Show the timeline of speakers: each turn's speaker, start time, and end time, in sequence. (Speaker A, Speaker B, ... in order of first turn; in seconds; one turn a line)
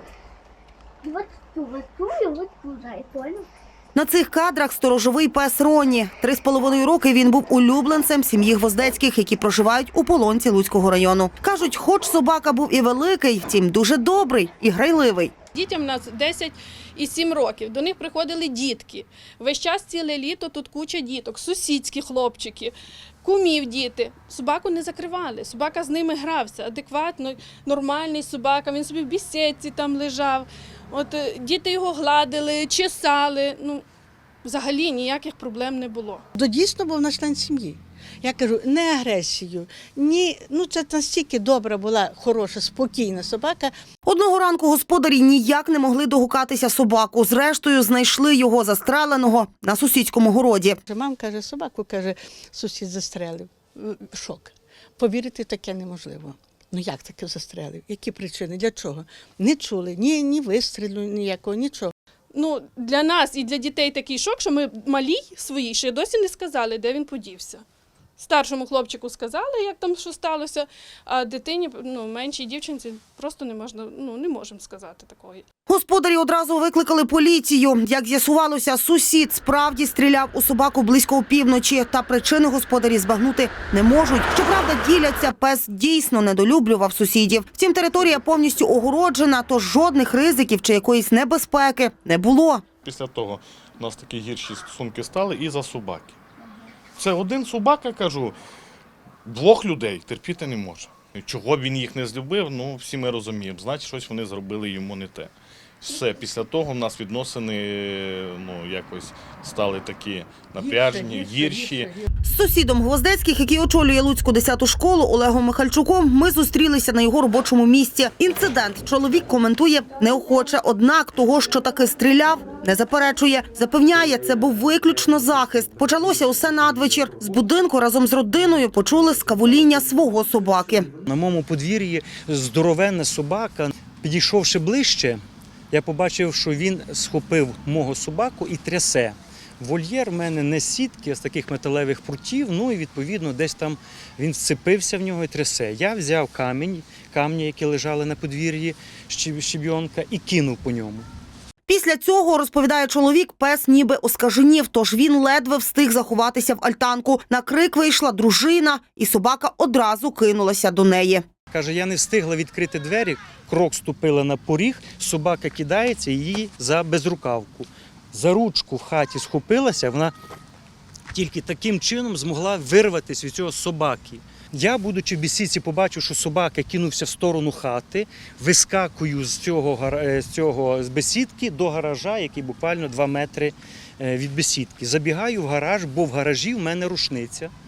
Speaker A: 1.1-3.5
Speaker B: 3.9-15.3
Speaker C: 15.5-33.8
Speaker C: 34.4-36.2
Speaker D: 36.3-43.7
Speaker B: 44.0-50.8
Speaker D: 50.9-61.9
Speaker C: 62.3-67.6
Speaker C: 68.2-75.4
Speaker B: 75.7-92.6
Speaker E: 92.8-96.2
Speaker E: 97.0-98.4
Speaker E: 99.2-112.0
Speaker B: 112.2-130.9
Speaker F: 131.1-151.1
Speaker B: 151.7-161.2
Speaker F: 161.5-170.1
Speaker F: 171.1-187.5